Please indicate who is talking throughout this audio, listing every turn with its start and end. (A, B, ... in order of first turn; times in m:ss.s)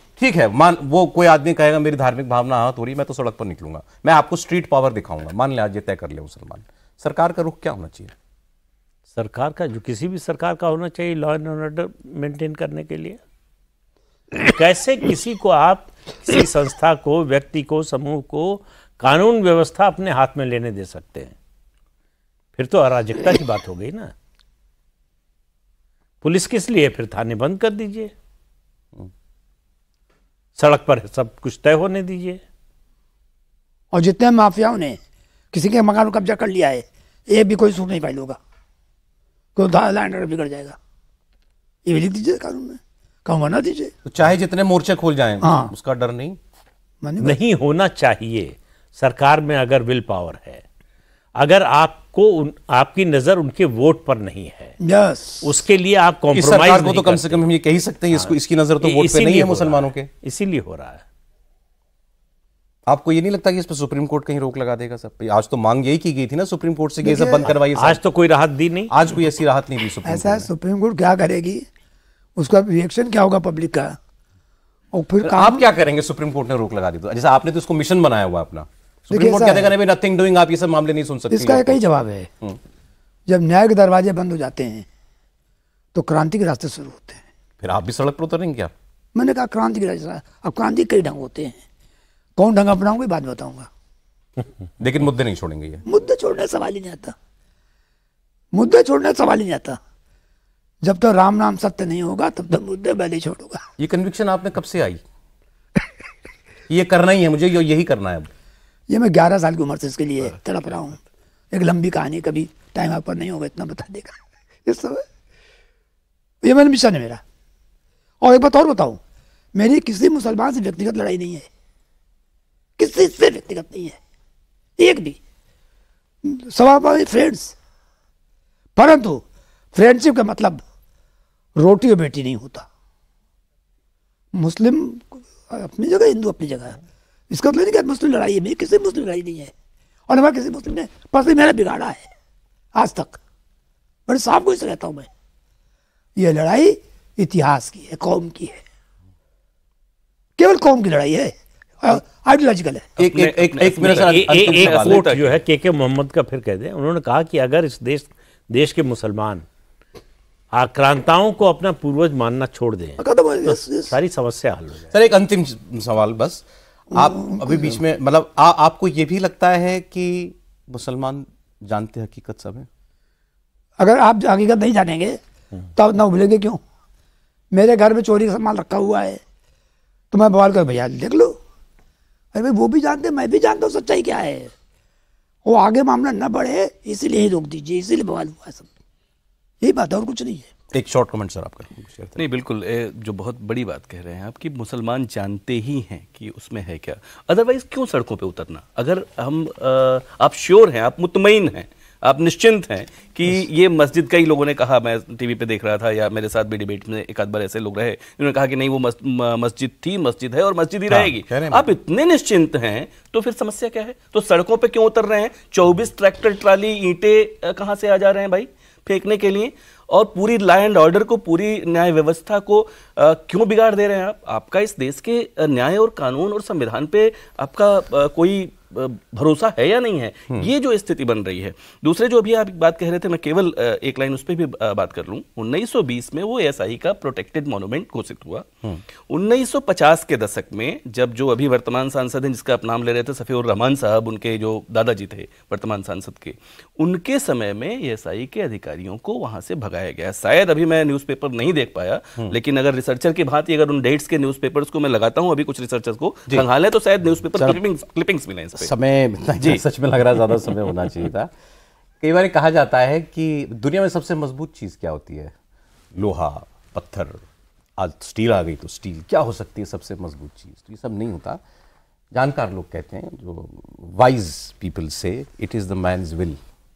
0:00.2-0:08.1 A
0:09.1-0:13.2 B
0:14.4-0:21.4 B
0:22.6-0:24.1 B
0:26.2-0:28.1 B
0:30.6-0:32.4 B
0:33.9-0:35.0 C
0:35.5-0:38.4 C
0:39.6-0:40.8 C
0:41.8-0:43.9 C
0:44.0-0:46.4 A
0:45.4-0:45.7 C
0:47.0-0:47.4 C
0:47.2-0:50.6 B
0:51.4-0:54.8 B
0:54.8-0:55.5 C
0:55.4-0:57.5 B
0:56.4-1:00.1 A
0:58.1-1:01.0 B
1:02.9-1:08.0 A
1:07.0-1:07.5 C
1:07.5-1:08.9 B
1:08.9-1:10.5 A
1:10.1-1:11.7 C
1:12.4-1:14.0 C
1:14.9-1:15.7 C
1:15.2-1:21.8 A
1:19.1-1:19.7 C
1:21.3-1:22.3 C
1:23.3-1:24.9 C
1:25.9-1:27.2 C
1:27.6-1:28.7 A
1:29.1-1:31.6 C
1:32.4-1:33.7 C
1:34.8-1:35.8 A
1:35.9-1:37.2 C
1:38.5-1:39.8 C
1:40.8-1:43.7 C
1:43.8-1:45.0 A
1:46.7-1:48.3 A
1:48.9-1:51.0 C
1:51.5-1:55.0 C
1:56.4-1:57.2 C
1:58.2-1:59.0 C
1:59.6-2:01.5 C
2:02.8-2:04.0 C
2:04.8-2:05.2 C
2:06.2-2:07.6 C
2:08.8-2:10.6 C
2:11.6-2:12.7 C
2:14.3-2:16.8 C
2:17.3-2:19.5 C
2:20.1-2:22.1 C
2:22.8-2:23.2 C
2:24.1-2:25.1 C
2:26.2-2:28.6 C
2:30.4-2:32.9 C
2:33.0-2:35.1 A
2:33.0-2:35.4 D
2:33.9-2:39.5 B
2:40.5-2:44.9 B
2:43.0-2:44.0 C
2:44.9-2:52.7 A
2:46.9-2:47.8 C
2:53.8-2:55.2 C
2:55.8-2:56.6 C
2:57.5-2:59.2 C
3:00.1-3:01.4 C
3:02.3-3:04.5 C
3:05.4-3:08.7 C
3:09.6-3:10.5 C
3:10.7-3:12.2 A
3:12.2-3:58.5 D
3:30.9-3:31.7 A
3:59.1-4:18.7 D
4:17.4-4:17.6 A
4:18.6-4:21.3 A
4:19.4-4:19.6 D
4:22.0-4:25.4 A
4:25.9-4:27.2 A
4:27.8-4:31.4 A
4:32.1-4:36.4 A